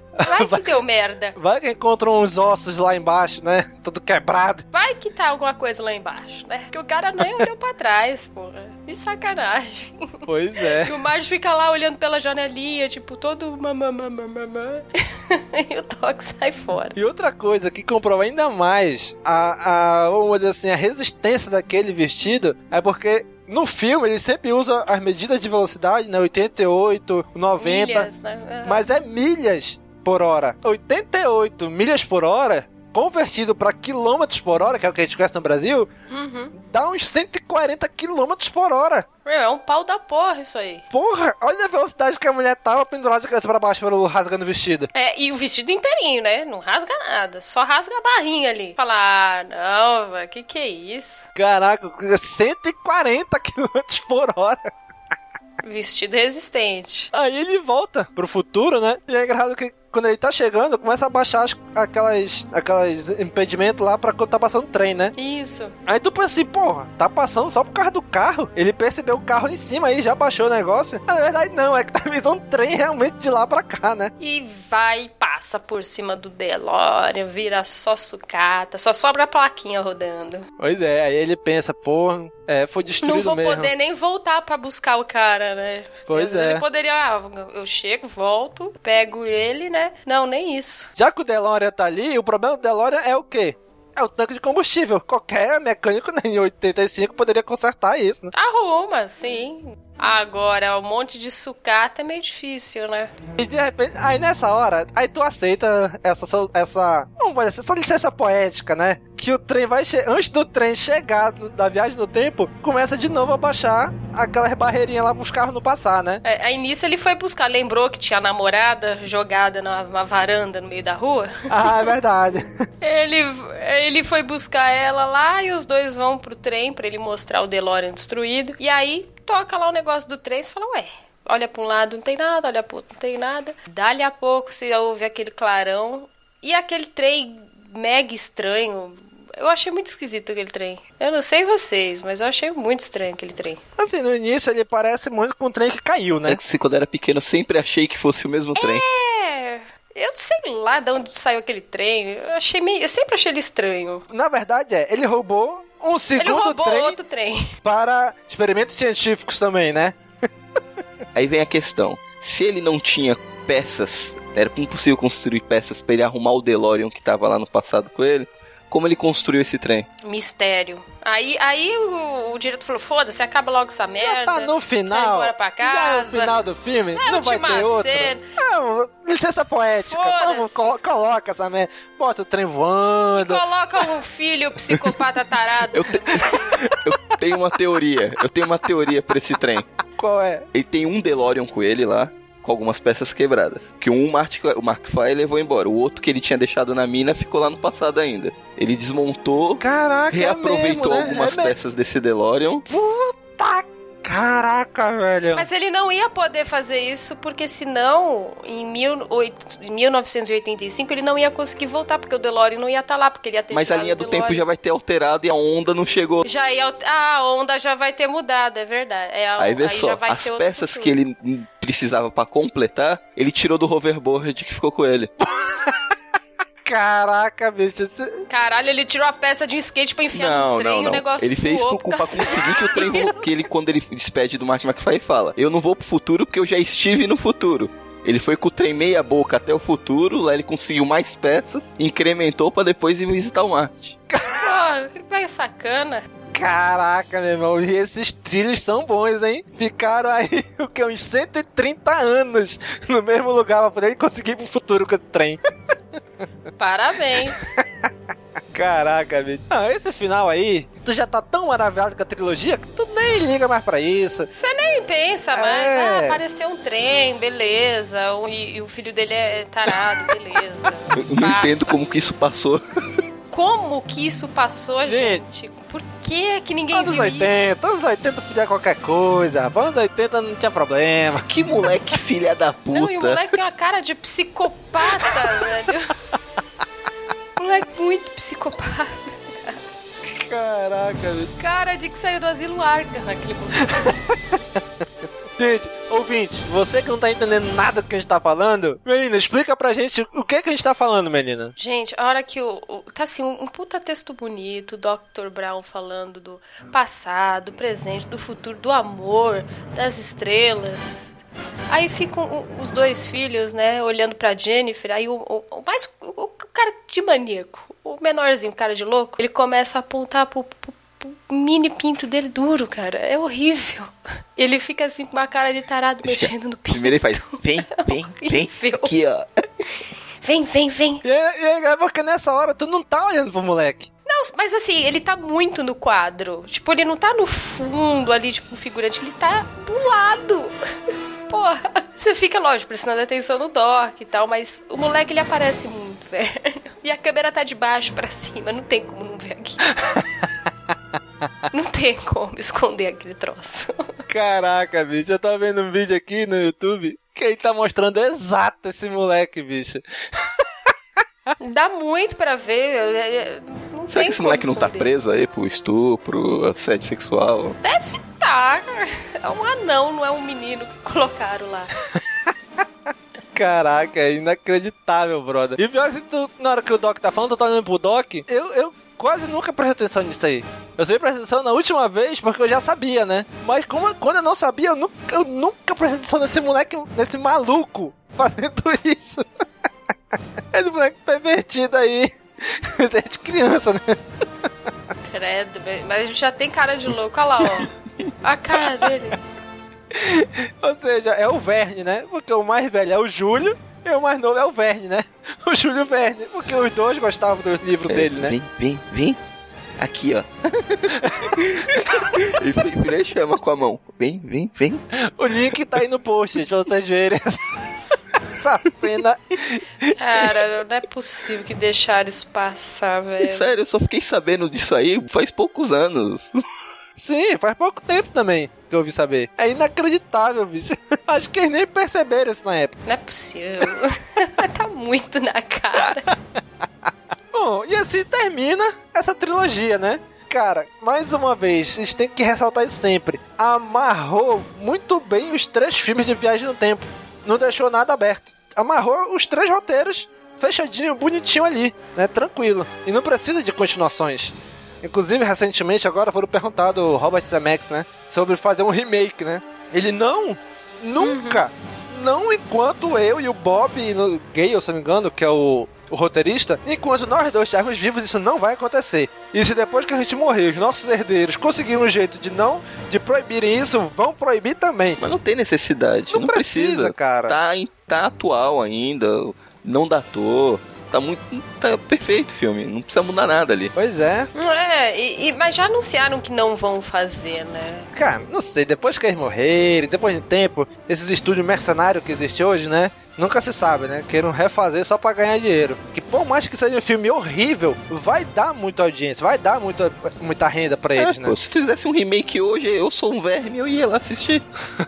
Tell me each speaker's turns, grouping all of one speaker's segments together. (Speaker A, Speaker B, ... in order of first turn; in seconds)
Speaker A: 0.2-0.8, 1.4-4.7, 10.3-10.9, 17.0-28.1, 28.6-35.9, 36.5-39.1, 40.9-44.9, 51.4-54.7, 57.1-65.1, 65.9-74.1, 80.6-83.7, 86.1-86.7, 91.0-98.3, 103.4-116.2, 121.5-122.5, 143.8-146.4, 154.1-157.0, 157.6-160.0, 174.0-183.4, 190.0-190.5, 199.6-201.6, 202.7-205.5, 226.7-228.2, 244.1-244.4, 246.3-255.4, 257.1-257.9, 258.5-264.3, 265.3-266.2, 274.9-275.2, 276.7-281.3, 290.1-291.3, 293.7-294.4, 295.4-301.5, 331.0-333.9, 349.7-350.3, 354.1-360.7, 371.9-372.3, 373.4-389.4, 390.1-394.7, 399.9-408.3, 411.0-411.3, 415.1-417.4, 418.3-419.9, 427.0-432.8, 436.1-475.0, 476.1-477.4, 483.8-484.3, 487.9-501.4
Speaker B: 0.2-1.4, 4.7-17.0, 27.6-28.9, 36.1-36.5, 39.2-40.9, 44.9-51.2, 55.6-57.1, 65.2-65.7, 74.2-80.5, 83.0-90.9, 98.3-103.1, 116.2-121.9, 122.8-143.6, 148.6-154.0, 156.2-157.5, 170.0-176.4, 176.9-178.2, 179.8-180.8, 183.2-186.7, 205.3-214.4, 216.2-220.9, 228.3-233.3, 244.3-246.1, 256.6-257.6, 264.3-271.7, 273.3-277.4, 282.7-285.9, 287.4-289.6, 291.4-293.9, 301.6-311.2, 311.7-328.9, 330.2-331.0, 334.1-340.6, 341.3-349.7, 351.5-353.8, 361.4-364.9, 367.6-371.7, 395.1-397.7, 398.2-399.2, 420.0-423.5, 432.9-436.1, 461.0-461.4, 484.4-487.9
Speaker C: 146.3-148.8, 161.2-169.9, 185.7-189.7, 190.5-202.7, 213.5-216.3, 219.4-225.1, 230.1-244.0, 271.0-272.6, 281.3-283.2, 326.0-329.2, 363.9-367.6, 407.9-409.2, 409.8-414.8, 423.2-426.3, 475.0-483.7, 501.0-504.4